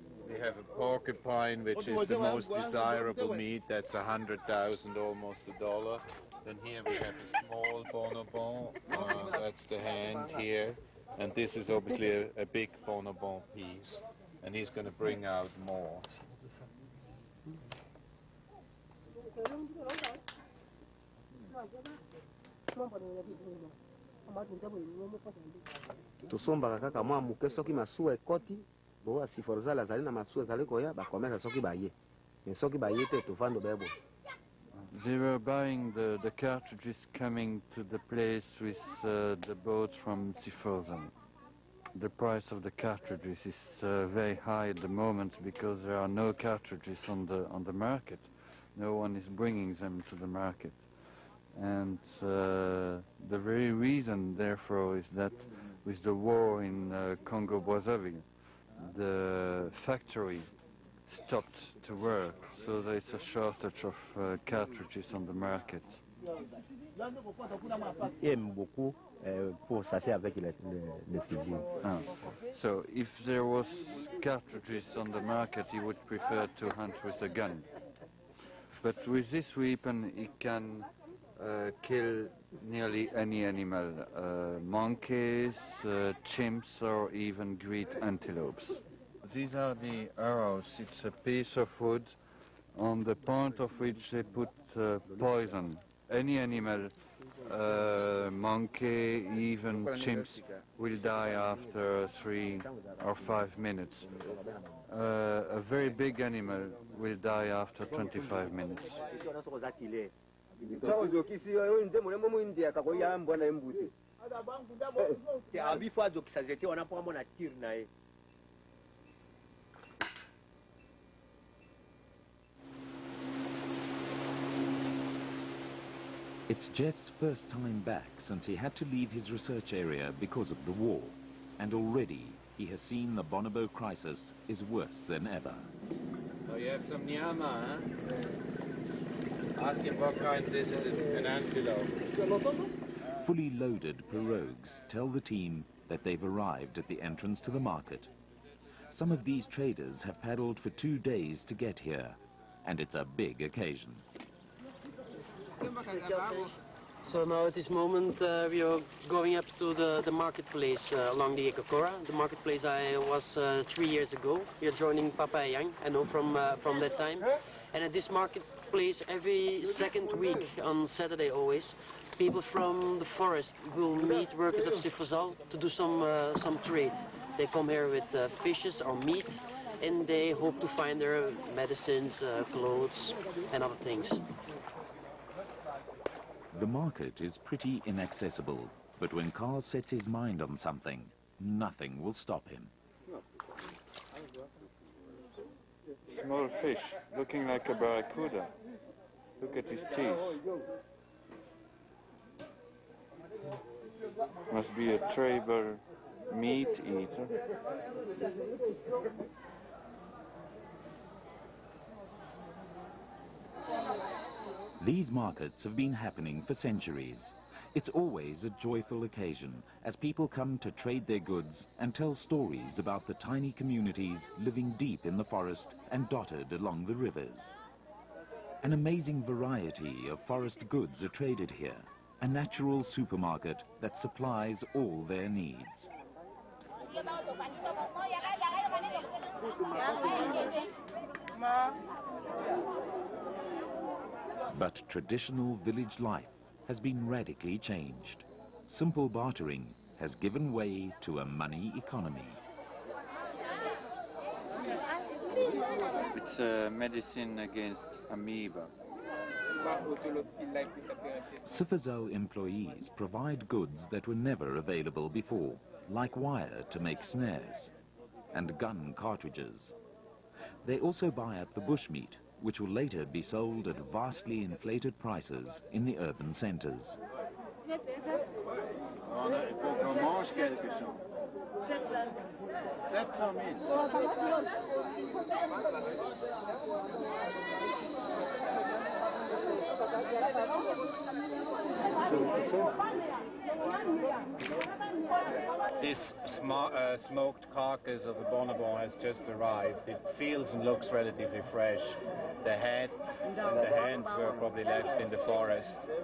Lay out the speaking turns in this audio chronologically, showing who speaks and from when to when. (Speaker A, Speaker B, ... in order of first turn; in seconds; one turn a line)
Speaker A: 0.2-16.0
Speaker B: 26.3-31.9
Speaker B: 32.5-33.9
Speaker C: 34.8-41.1
Speaker C: 41.9-60.5
Speaker C: 61.1-66.0
Speaker B: 68.0-71.7
Speaker C: 71.8-77.7
Speaker C: 78.8-104.1
Speaker C: 104.9-109.0
Speaker B: 109.2-110.0
Speaker B: 110.8-111.3
Speaker B: 112.6-113.6
Speaker B: 115.5-117.8
Speaker D: 126.5-135.7
Speaker A: 136.5-137.9
Speaker A: 139.6-141.9
Speaker D: 143.2-148.1
Speaker D: 148.9-154.0
Speaker E: 155.6-184.2
Speaker D: 186.5-192.7
Speaker C: 196.1-198.5
Speaker C: 199.4-200.4
Speaker C: 204.5-207.4
Speaker D: 214.8-227.6
Speaker D: 228.6-235.9
Speaker D: 244.5-252.4
Speaker C: 256.1-258.7
Speaker D: 261.4-267.7
Speaker D: 268.3-269.7
Speaker D: 270.6-277.0
Speaker A: 279.4-280.7
Speaker A: 295.8-305.8